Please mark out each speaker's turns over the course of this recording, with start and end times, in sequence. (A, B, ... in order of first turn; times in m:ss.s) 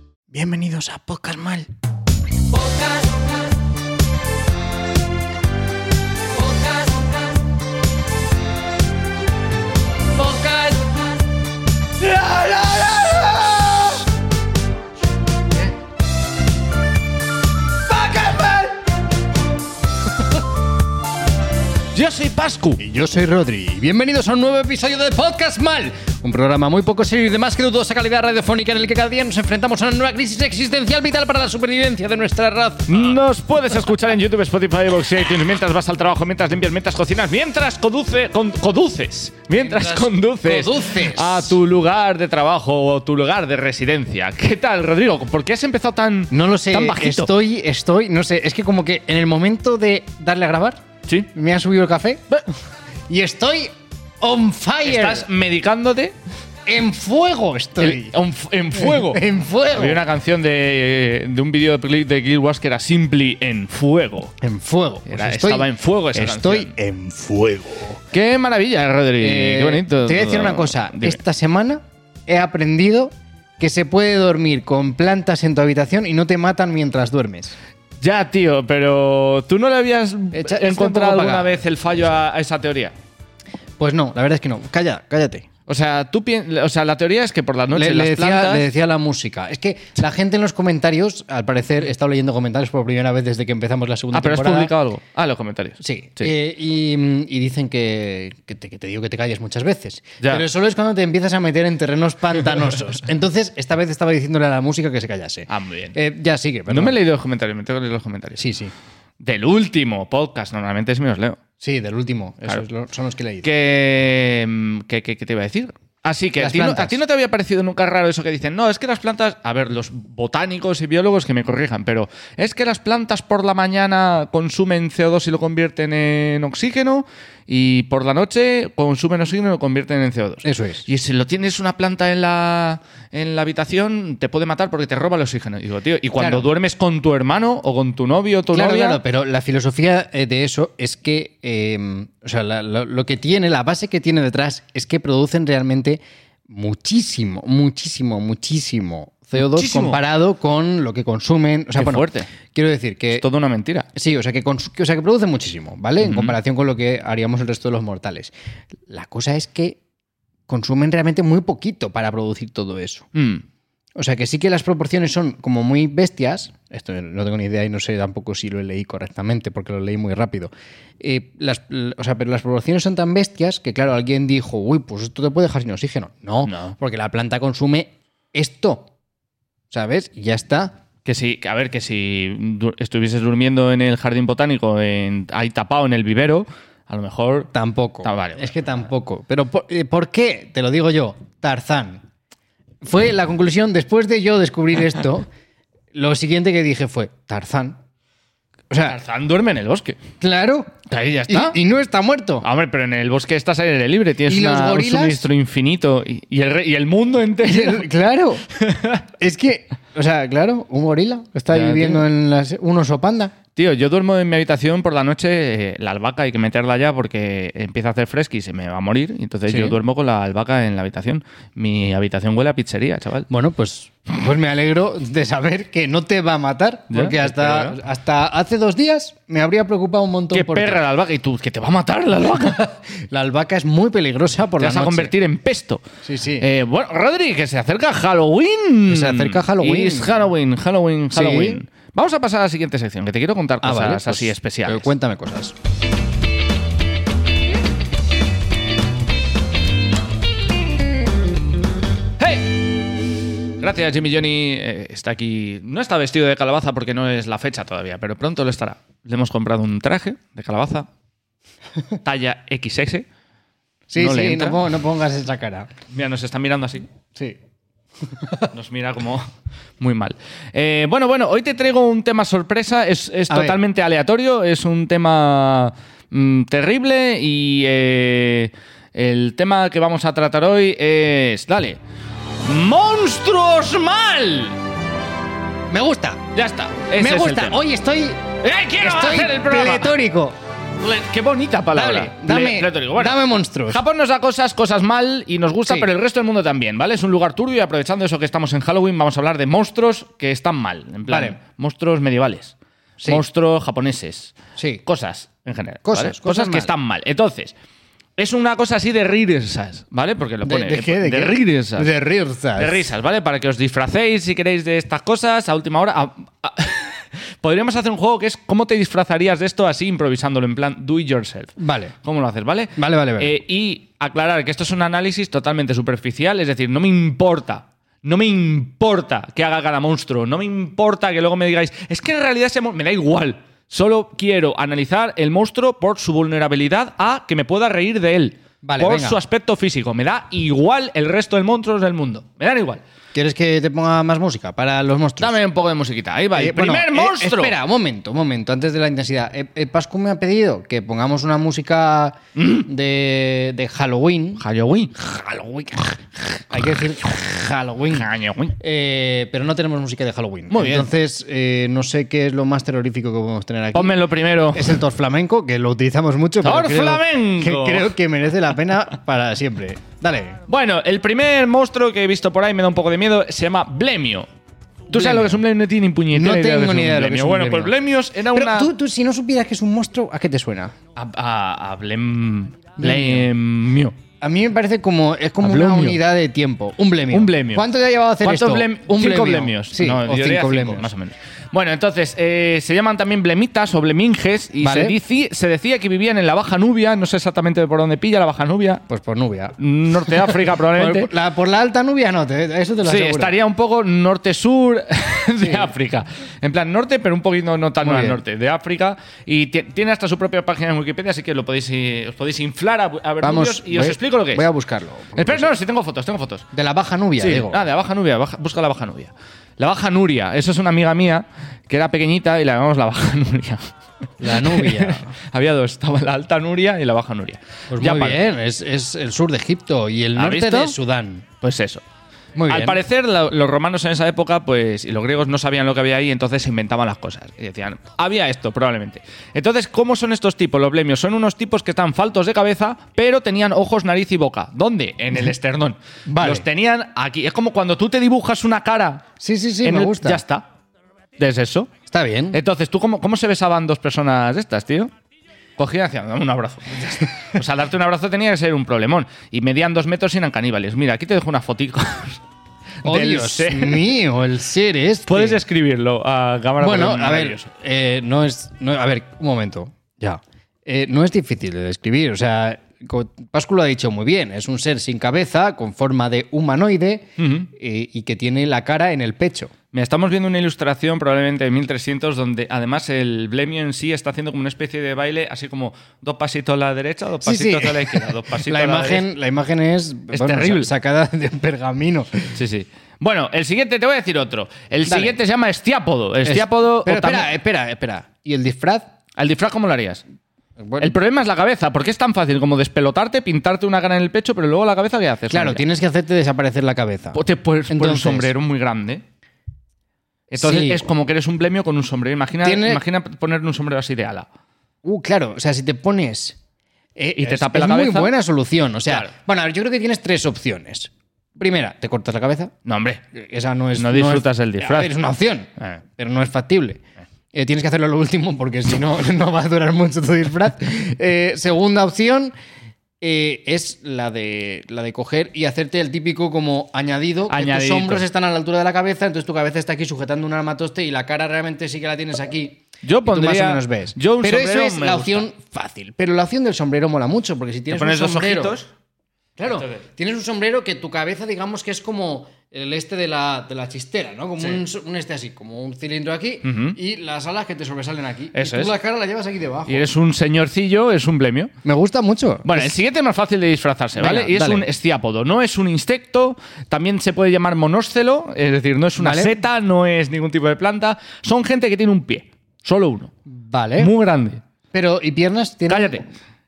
0:00.3-0:01.7 A
0:02.8-0:03.1 A
0:10.2-0:11.0 A
0:12.2-0:13.9 A
0:17.9-0:18.8 A
0:21.9-0:22.8 B
0:22.8-0:33.2 A
0:32.9-0:47.3 B
0:39.6-0:41.6 A
0:46.3-0:50.8 A
0:51.3-0:52.2 A
0:53.1-0:55.2 A
0:54.8-0:56.1 B
0:56.7-0:58.1 A
0:57.8-1:04.3 B
0:58.7-1:00.0 A
1:04.4-1:08.0 A
1:05.1-1:06.7 B
1:08.1-1:11.2 B
1:09.2-1:17.6 A
1:18.0-1:22.9 B
1:20.3-1:21.5 A
1:23.8-1:25.5 A
1:25.7-1:28.7 B
1:27.7-1:34.7 A
1:34.1-1:36.3 B
1:35.8-1:47.0 A
1:45.5-1:46.0 B
1:46.7-1:48.5 B
1:48.4-1:48.7 A
1:49.2-1:51.4 B
1:51.6-1:53.5 A
1:53.4-2:19.0 B
1:56.4-1:57.0 A
2:10.4-2:10.8 A
2:16.2-2:16.5 A
2:18.5-2:33.2 A
2:29.4-2:30.0 B
2:31.8-2:32.3 B
2:33.1-2:33.9 B
2:33.9-2:38.3 A
2:36.0-2:36.3 B
2:38.9-2:39.8 A
2:40.5-2:43.1 A
2:43.1-2:43.4 B
2:44.0-2:58.9 A
2:56.4-2:56.7 B
2:59.7-3:00.8 A
3:01.0-3:07.5 B
3:07.5-3:12.0 A
3:08.0-3:08.7 B
3:12.8-3:15.3 A
3:15.9-3:17.8 A
3:18.7-3:19.0 A
3:18.9-3:20.0 B
3:20.2-3:22.4 A
3:20.9-3:21.6 B
3:22.4-3:27.8 B
3:24.3-3:25.2 A
3:27.4-3:28.4 A
3:28.5-3:29.0 B
3:29.2-3:33.3 A
3:31.5-3:32.0 B
3:33.6-3:43.3 B
3:39.5-3:39.8 A
3:43.3-3:50.8 A
3:46.9-3:47.8 B
3:50.3-3:52.7 B
3:52.8-3:55.1 A
3:54.6-3:55.8 B
3:56.0-3:56.5 A
3:56.4-4:04.9 B
3:58.9-4:00.2 A
4:01.1-4:01.6 A
4:03.6-4:05.5 A
4:12.2-4:12.6 B
4:13.6-4:20.9 B
4:22.0-4:23.0 B
4:23.9-4:25.7 A
4:24.0-4:24.6 B
4:25.9-4:26.9 B
4:28.0-4:28.5 A
4:28.5-4:29.3 B
4:29.8-4:41.8 B
4:33.3-4:33.6 A
4:42.4-4:44.6 B
4:45.7-4:46.2 A
4:46.3-4:47.6 B
4:47.0-4:50.4 A
4:48.4-4:50.0 B
4:50.8-5:07.5 B
4:51.7-4:53.8 A
5:01.1-5:01.4 A
5:04.6-5:04.8 A
5:05.8-5:06.7 A
5:08.2-5:11.9 B
5:10.4-5:12.9 A
5:12.6-5:42.8 B
5:21.6-5:21.9 A
5:22.8-5:23.3 A
5:38.6-5:39.2 A
5:43.1-5:45.4 A
5:45.2-5:47.5 B
5:46.3-5:54.4 A
5:52.4-5:52.7 B
5:54.4-5:54.9 B
5:54.9-5:56.0 A
5:56.5-6:10.4 A
5:57.9-5:58.6 B
6:00.5-6:00.9 B
6:03.7-6:04.8 B
6:06.4-6:07.9 B
6:10.5-6:14.3 B
6:14.9-6:18.7 B
6:14.9-6:15.4 A
6:16.1-6:17.7 A
6:18.3-6:20.7 A
6:21.0-6:24.0 B
6:22.8-6:23.3 A
6:24.2-6:30.9 A
6:25.4-6:26.0 B
6:27.1-6:27.6 B
6:28.2-6:38.8 B
6:34.6-6:35.0 A
6:38.9-6:43.3 A
6:39.6-6:41.1 B
6:42.8-6:54.5 B
6:45.4-6:45.7 A
6:47.8-6:48.2 A
6:53.2-6:55.5 A
6:55.2-6:56.4 B
6:56.5-6:57.6 A
6:57.2-7:03.6 B
7:04.2-7:05.1 A
7:04.2-7:08.2 B
7:07.7-7:11.3 A
7:10.2-7:10.7 B
7:11.4-7:11.8 B
7:12.4-7:12.8 A
7:12.5-7:29.1 B
7:26.1-7:26.4 A
7:29.2-7:30.2 A
7:29.6-7:30.4 B
7:31.2-7:31.8 B
7:31.8-7:32.4 A
7:32.3-7:34.9 B
7:35.6-7:42.2 B
7:42.8-7:43.8 B
7:42.8-7:45.4 A
7:45.1-7:47.4 B
7:46.6-7:59.5 A
7:57.2-7:57.5 B
7:59.7-8:09.0 B
8:07.2-8:12.4 A
8:10.1-8:10.7 B
8:12.3-8:17.3 B
8:14.8-8:15.2 A
8:16.2-8:18.9 A
8:19.2-8:20.0 B
8:20.6-8:20.9 A
8:20.8-8:25.6 B
8:25.3-8:28.3 A
8:27.1-8:29.0 B
8:30.3-8:34.2 B
8:30.3-8:30.8 A
8:32.4-8:32.8 A
8:34.8-8:36.4 A
8:37.0-8:42.5 A
8:37.2-8:38.1 B
8:42.6-8:43.0 B
8:43.1-8:46.8 A
8:43.7-8:44.9 B
8:47.3-8:52.3 A
8:53.0-9:08.6 A
8:57.3-8:58.0 B
9:02.8-9:05.3 B
9:07.7-9:08.7 B
9:09.4-9:19.9 A
9:09.5-9:09.8 B
9:16.4-9:16.8 B
9:18.3-9:18.7 B
9:19.7-9:21.5 B
9:21.6-9:22.8 A
9:22.4-9:33.1 B
9:24.0-9:24.7 A
9:29.0-9:29.4 A
9:33.3-9:33.9 A
9:33.8-9:34.4 B
9:34.7-9:36.0 A
9:35.7-9:36.0 B